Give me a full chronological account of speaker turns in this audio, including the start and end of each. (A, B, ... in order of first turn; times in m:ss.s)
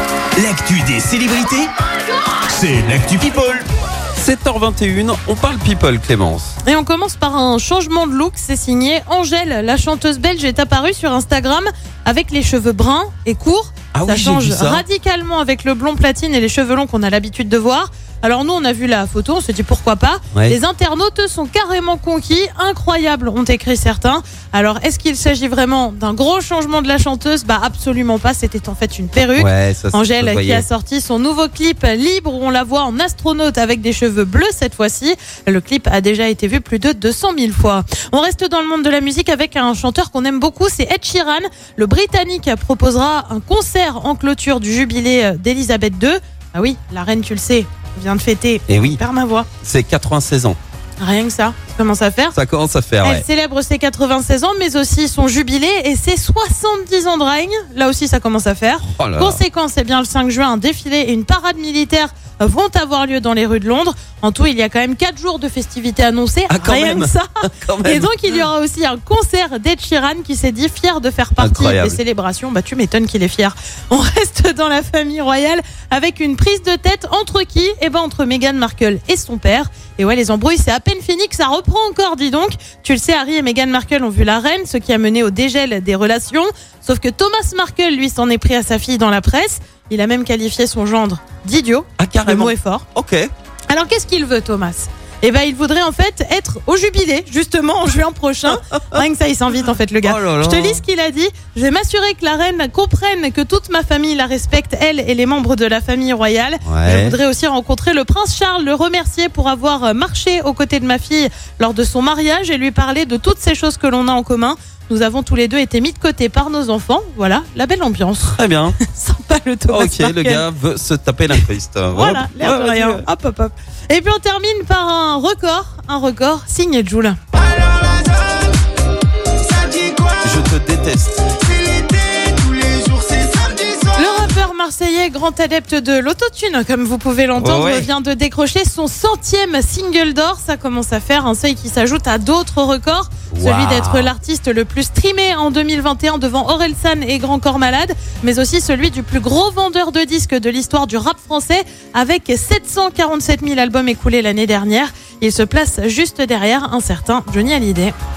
0:00.4-0:01.7 A
0:02.4-0:03.5 A
0:03.2-0:03.6 B
0:04.2-0:06.5 B
0:06.6-0:49.5 C
0:13.9-0:14.8 B
0:29.4-0:30.6 B
0:48.7-0:49.0 B
0:49.6-0:50.6 B
0:51.0-0:52.4 C
0:52.3-0:53.2 B
0:53.0-1:07.3 C
0:58.9-0:59.4 B
1:06.5-1:08.4 B
1:07.8-1:32.8 C
1:11.4-1:12.0 B
1:32.0-1:33.3 B
1:33.7-2:00.4 C
1:38.5-1:39.0 B
1:40.0-1:40.8 B
1:46.6-1:47.2 B
1:58.4-1:58.8 B
1:59.7-2:03.0 B
2:01.9-2:07.2 C
2:07.4-2:08.5 D
2:09.4-2:10.2 D
2:10.2-2:11.3 B
2:11.3-2:14.0 D
2:13.9-2:37.9 C
2:17.4-2:17.9 B
2:23.3-2:24.1 B